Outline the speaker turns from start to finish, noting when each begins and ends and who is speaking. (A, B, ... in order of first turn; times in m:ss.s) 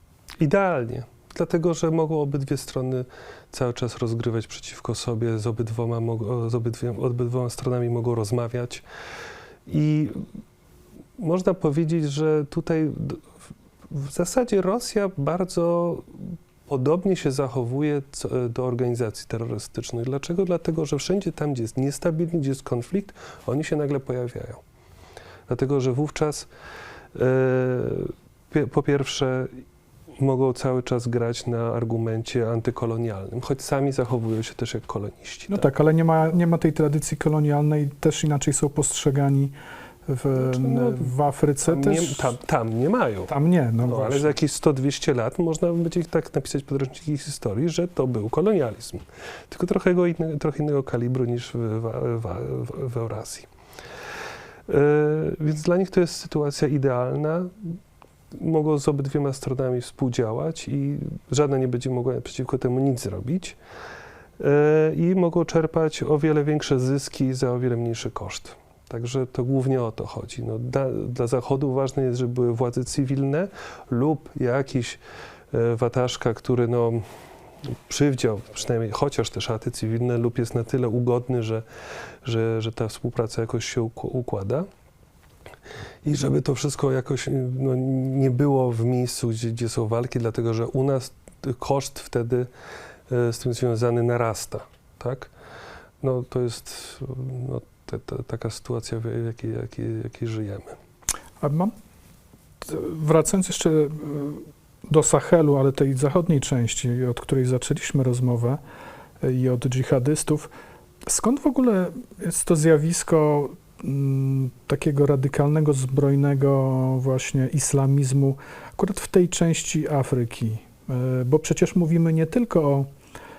0:00.4-0:08.8 A
0:09.7-0:10.2 A
0:11.2-0:13.2 A
0:13.9-0:24.6 A
0:25.5-0:26.5 A
0:27.1-0:29.6 A
0:30.2-0:35.6 A
0:35.5-0:39.5 B
0:40.0-0:42.3 B
0:40.4-0:53.5 A
0:43.3-0:44.3 B
0:54.7-0:57.8 A
0:58.3-1:03.6 A
1:04.4-1:15.0 A
1:15.5-1:17.0 A
1:17.9-1:21.6 A
1:22.2-1:24.7 A
1:26.0-1:32.5 A
1:33.1-1:35.3 A
1:36.0-1:40.8 A
1:41.4-1:41.7 B
1:42.6-1:48.6 B
1:49.2-1:50.5 B
1:51.0-2:02.9 B